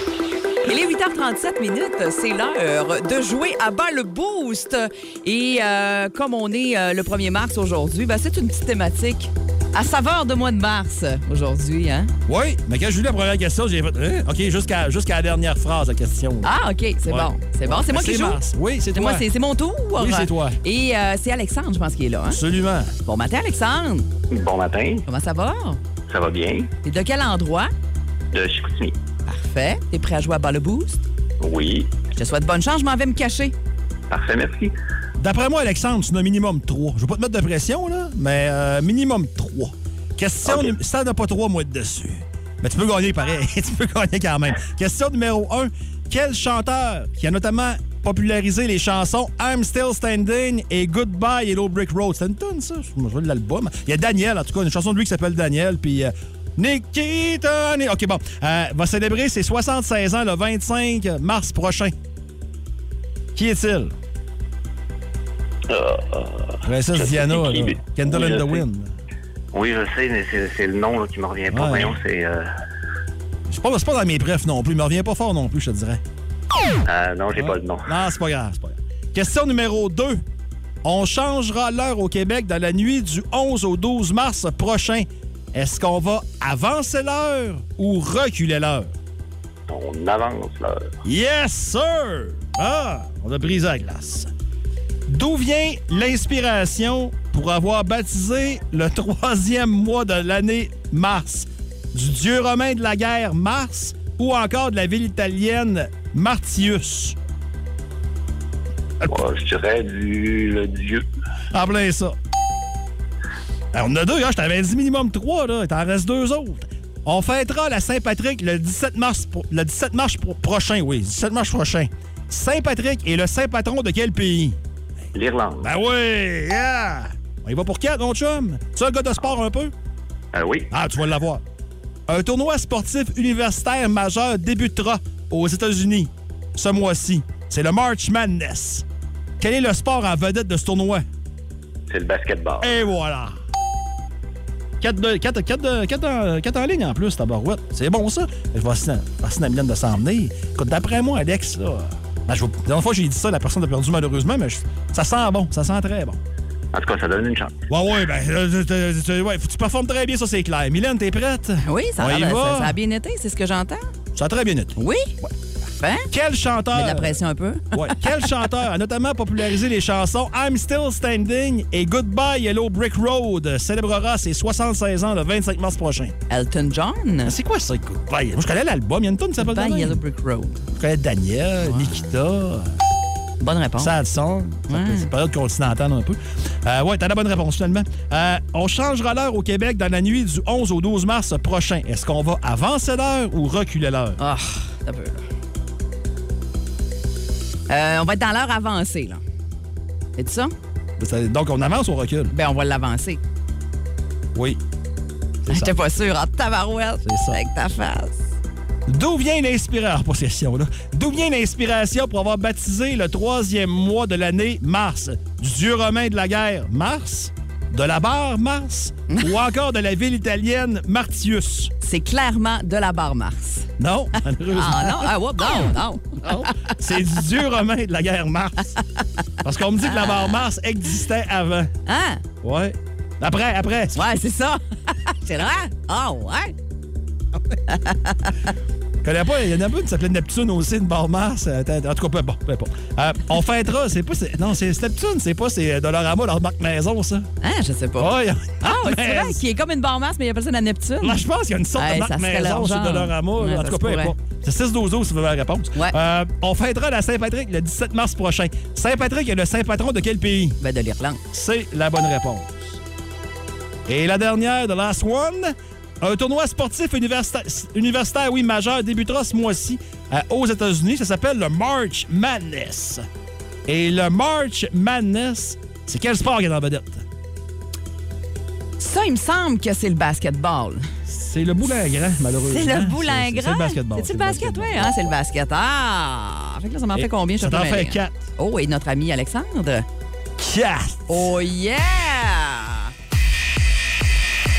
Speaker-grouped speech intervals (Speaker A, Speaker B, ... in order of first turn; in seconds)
Speaker A: 0.7-12.1, 16.4-18.4, 18.9-22.4, 23.0-24.1, 25.1-25.8, 26.8-27.7, 29.3-31.0, 32.2-33.5, 161.6-163.9, 164.8-165.1, 165.7-166.1, 166.7-168.3, 176.3-177.4, 179.4-180.6, 181.6-181.9, 183.4-183.9, 184.7-185.1, 194.2-195.2, 197.7-199.2, 200.2-200.5, 202.3-203.2, 205.5-208.2, 219.1-219.3, 221.8-223.7, 224.5-226.7, 229.8-230.4, 231.9-232.2, 233.9-236.5, 237.7-238.5, 247.4-251.2, 251.8-254.1, 260.6-261.2, 278.8-280.9, 282.5-289.9, 291.1-292.9
Speaker B: 12.3-16.5, 17.1-19.3, 20.0-20.6, 22.3-22.9, 35.2-62.0, 63.4-64.0, 66.7-68.9, 71.5-71.9, 73.5-76.0, 77.3-80.2, 80.8-88.9, 91.0-94.3, 95.1-107.2, 111.5-112.2, 113.7-124.6, 125.6-129.7, 130.7-131.4, 132.1-138.8, 139.4-141.1, 142.6-143.3, 144.8-156.2, 157.7-162.8, 164.2-165.3, 166.1-167.2, 167.7-176.2, 177.3-180.0, 180.7-182.7, 183.8-194.2, 201.0-202.3, 205.4-205.8, 207.0-207.4, 208.9-221.7, 223.8-225.1, 226.2-228.8, 229.4-231.7, 232.4-234.1, 239.0-247.3, 248.0-249.4, 251.0-260.6, 261.3-262.8, 263.9-273.1, 273.7-277.1, 281.1-285.1, 286.9-288.2, 290.4-291.3
Speaker C: 24.3-25.1, 26.1-26.7, 28.3-29.0, 31.4-31.9, 34.1-34.7, 40.5-40.8, 65.7-68.7, 69.5-72.5, 76.9-77.9, 89.7-90.9, 109.0-111.0, 125.1-125.7, 130.3-130.7, 141.9-142.8, 156.7-157.6